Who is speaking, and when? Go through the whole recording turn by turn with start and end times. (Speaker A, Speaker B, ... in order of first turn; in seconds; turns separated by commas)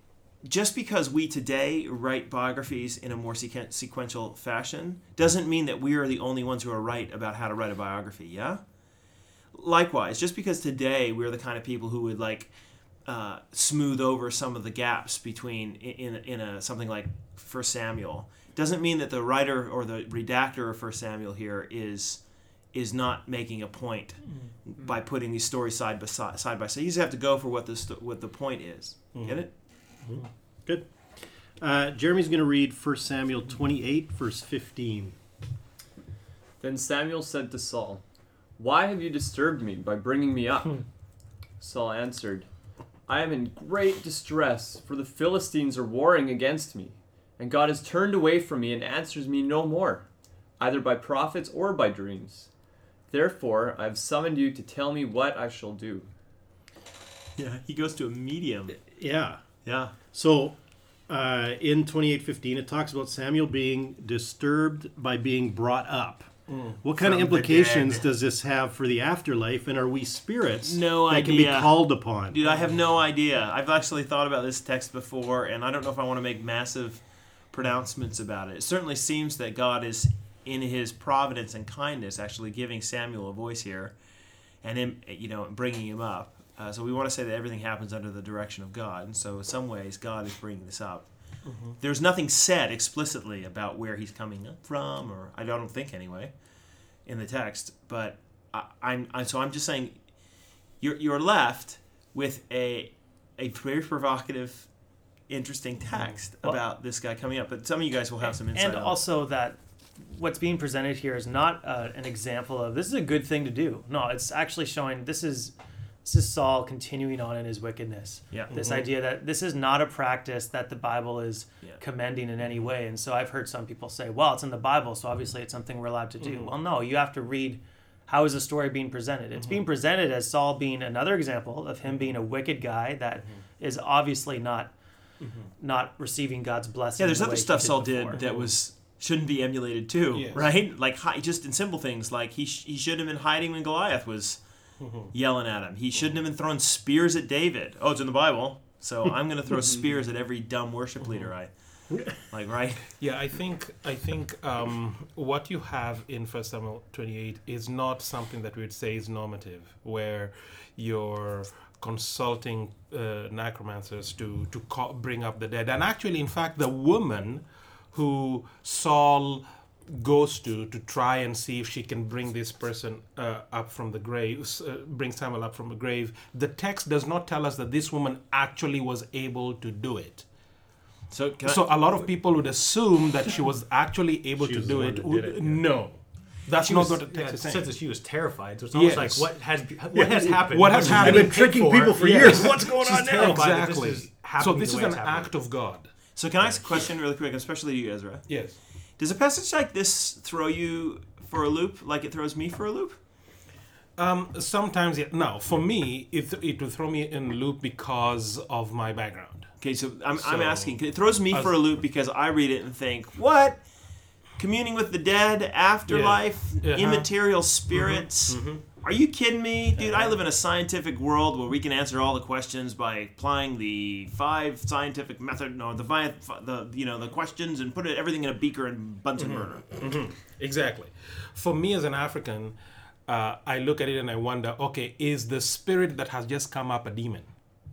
Speaker A: 0.4-8.6, Speaker A: 9.5-12.5, Speaker A: 13.0-29.5, Speaker B: 30.0-35.1, Speaker C: 36.6-38.0, Speaker C: 38.6-40.9, Speaker C: 41.6-42.5, Speaker C: 43.0-50.1, Speaker C: 50.6-52.5, Speaker C: 53.1-56.1, Speaker A: 57.4-58.8, Speaker B: 58.9-59.4, Speaker A: 59.6-59.9, Speaker B: 59.9-72.4, Speaker D: 66.5-66.8, Speaker A: 67.0-68.1, Speaker A: 70.6-84.0, Speaker A: 84.6-96.3, Speaker D: 91.4-91.7, Speaker A: 97.0-104.7, Speaker A: 105.3-109.0, Speaker E: 108.2-134.7, Speaker A: 118.3-118.5, Speaker D: 118.5-118.9, Speaker D: 135.2-135.5, Speaker E: 135.6-138.2, Speaker A: 137.0-152.8, Speaker D: 138.1-138.6, Speaker D: 140.1-140.6, Speaker D: 144.8-145.1, Speaker D: 145.9-146.2, Speaker D: 152.9-180.2, Speaker A: 181.1-181.9, Speaker D: 181.4-187.8, Speaker B: 184.4-185.9, Speaker F: 186.5-195.4, Speaker D: 188.7-196.8, Speaker B: 190.9-193.0, Speaker A: 196.1-203.0, Speaker D: 198.3-198.6, Speaker D: 203.9-209.5, Speaker A: 209.6-213.7, Speaker D: 210.1-211.7, Speaker A: 214.3-229.7, Speaker D: 215.9-218.6, Speaker D: 219.8-220.2, Speaker D: 229.2-237.3